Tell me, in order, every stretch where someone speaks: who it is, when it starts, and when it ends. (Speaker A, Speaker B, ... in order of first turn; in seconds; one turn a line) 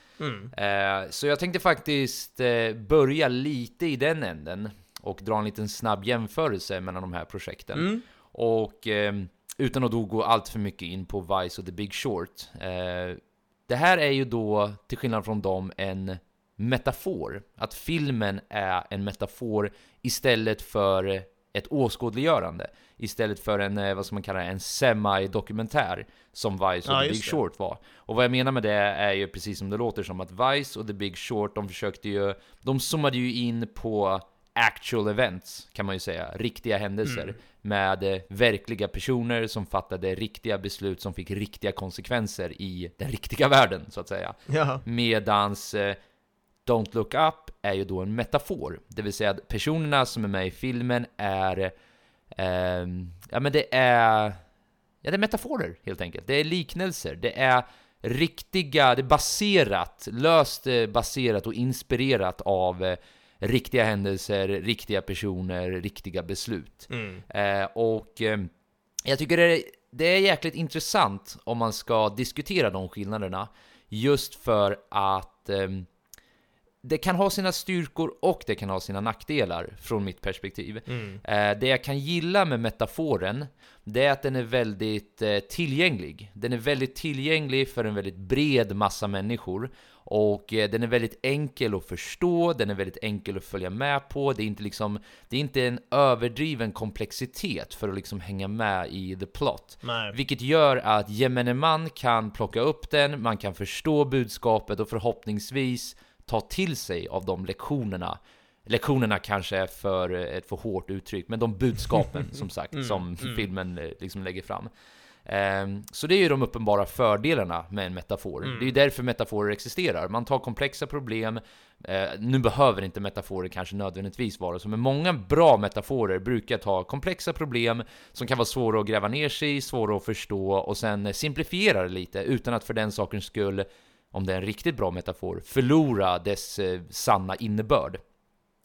Speaker A: 0.2-0.5
Speaker B: 0.5-46.0
Speaker A: 7.7-8.0
Speaker A: 26.9-27.4
Speaker A: 37.0-37.3
Speaker A: 44.5-44.8
Speaker B: 46.6-51.7
Speaker B: 52.3-54.4
Speaker B: 55.0-68.5
Speaker A: 66.9-67.2
Speaker B: 69.0-75.9
Speaker B: 76.8-114.7
Speaker A: 80.9-81.2
Speaker A: 99.8-100.1
Speaker A: 112.7-113.4
Speaker B: 115.2-138.0
Speaker A: 118.4-118.7